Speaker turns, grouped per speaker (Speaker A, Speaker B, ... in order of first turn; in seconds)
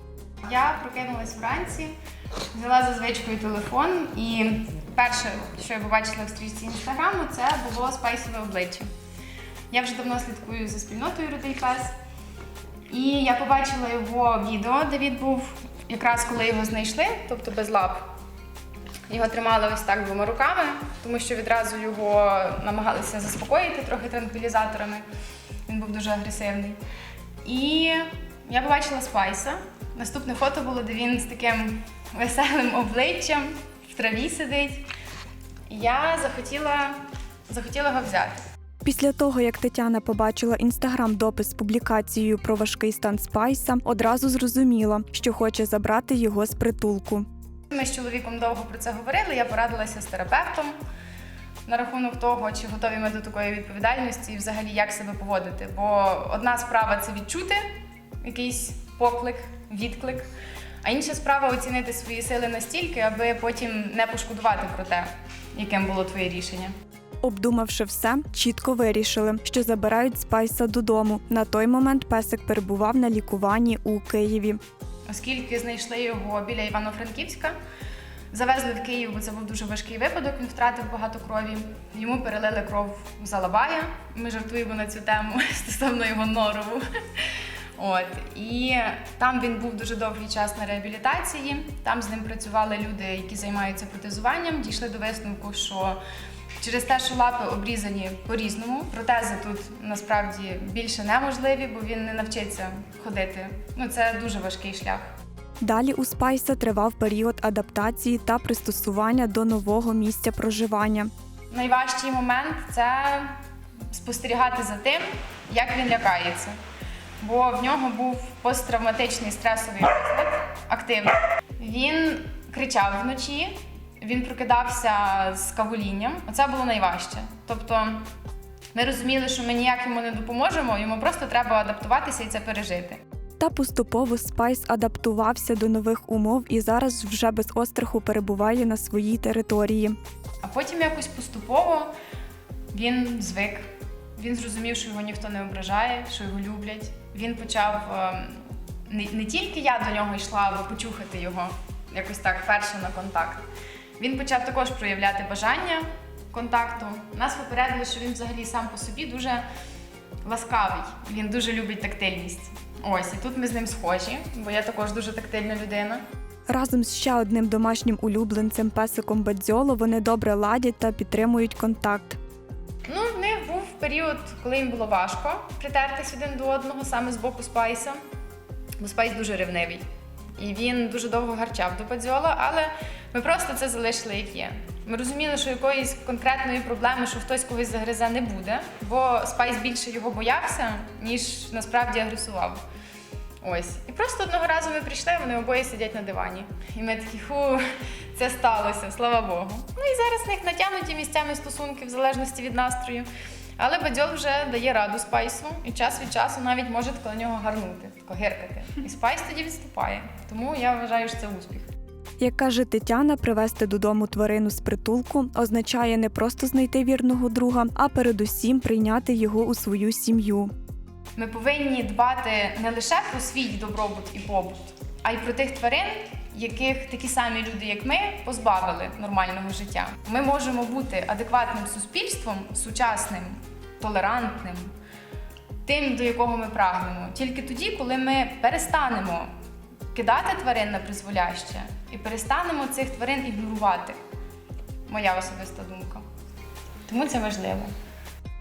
Speaker A: 0.4-1.9, 2.5-8.9, 9.7-11.9, 12.9-18.1, 19.1-25.0, 25.7-26.8, 27.4-34.9, 35.7-38.4, 47.7-50.7, 51.6-57.7, 58.2-60.3, 60.8-66.7, 75.1-77.5, 78.3-96.0, 96.6-105.0, 111.5-113.3, 113.9-116.5, 117.2-128.1, 128.7-133.0, 140.4-141.9, 142.7-153.4, 154.0-159.4, 160.2-166.0, 172.8-178.0, 178.8-179.8, 180.4-192.6, 193.4-211.7, 221.2-234.7, 235.6-239.3, 239.9-244.0, 244.9-246.0, 246.9-247.7
Speaker B: 38.8-47.2, 67.2-74.6, 105.6-111.1, 133.4-139.9, 166.5-172.2, 212.2-220.5